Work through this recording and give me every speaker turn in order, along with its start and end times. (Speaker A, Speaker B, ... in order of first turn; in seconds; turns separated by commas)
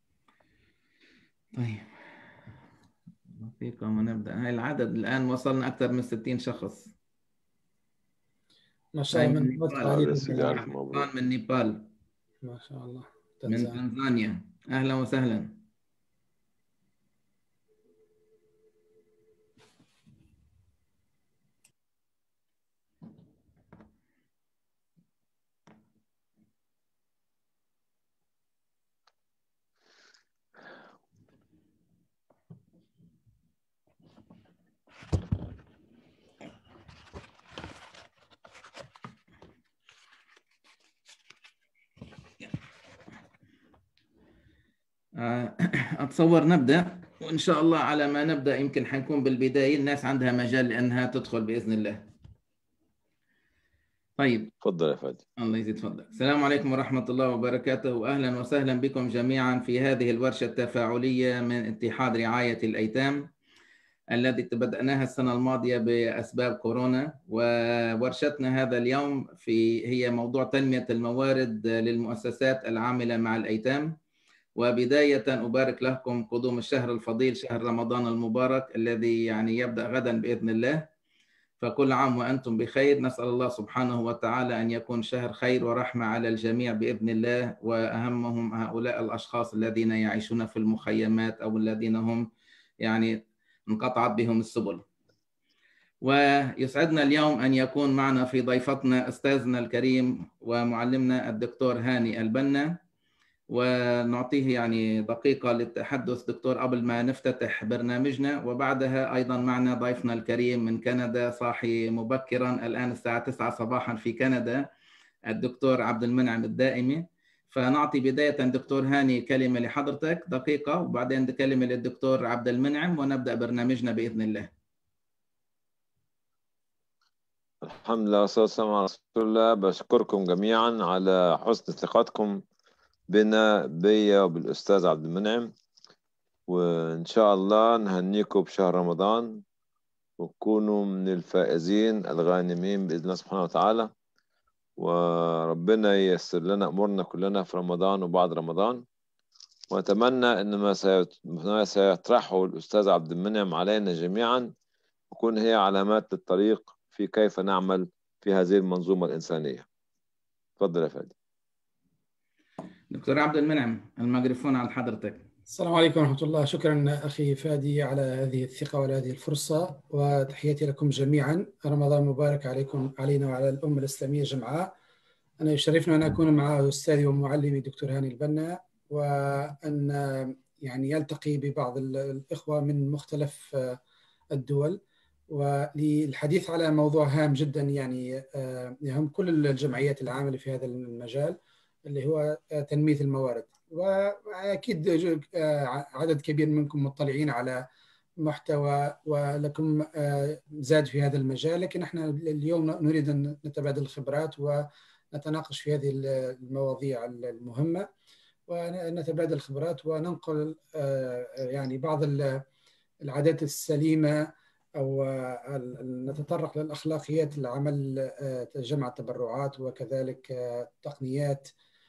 Speaker A: 1.6-1.9, Speaker A: 3.4-6.9, Speaker B: 8.9-10.6, Speaker A: 9.1-11.9, Speaker C: 9.9-11.1, Speaker B: 12.4-13.8, Speaker A: 13.5-15.5, Speaker A: 45.2-52.0, Speaker A: 54.2-54.5, Speaker C: 54.6-55.2, Speaker A: 55.4-63.3, Speaker A: 64.1-73.9, Speaker A: 74.6-80.9, Speaker A: 81.6-92.3, Speaker A: 92.8-93.2, Speaker A: 93.7-94.8, Speaker A: 96.0-102.8, Speaker A: 103.5-114.7, Speaker A: 115.3-124.5, Speaker C: 127.6-132.4, Speaker C: 133.1-135.5, Speaker C: 136.5-139.4, Speaker C: 140.2-143.9, Speaker C: 144.8-148.8, Speaker C: 149.7-154.5, Speaker C: 155.1-159.7, Speaker C: 160.6-161.1, Speaker A: 162.9-165.2, Speaker B: 165.5-174.7, Speaker B: 175.4-183.8, Speaker B: 184.3-197.6, Speaker B: 198.2-207.9, Speaker B: 208.5-212.4, Speaker B: 213.0-221.5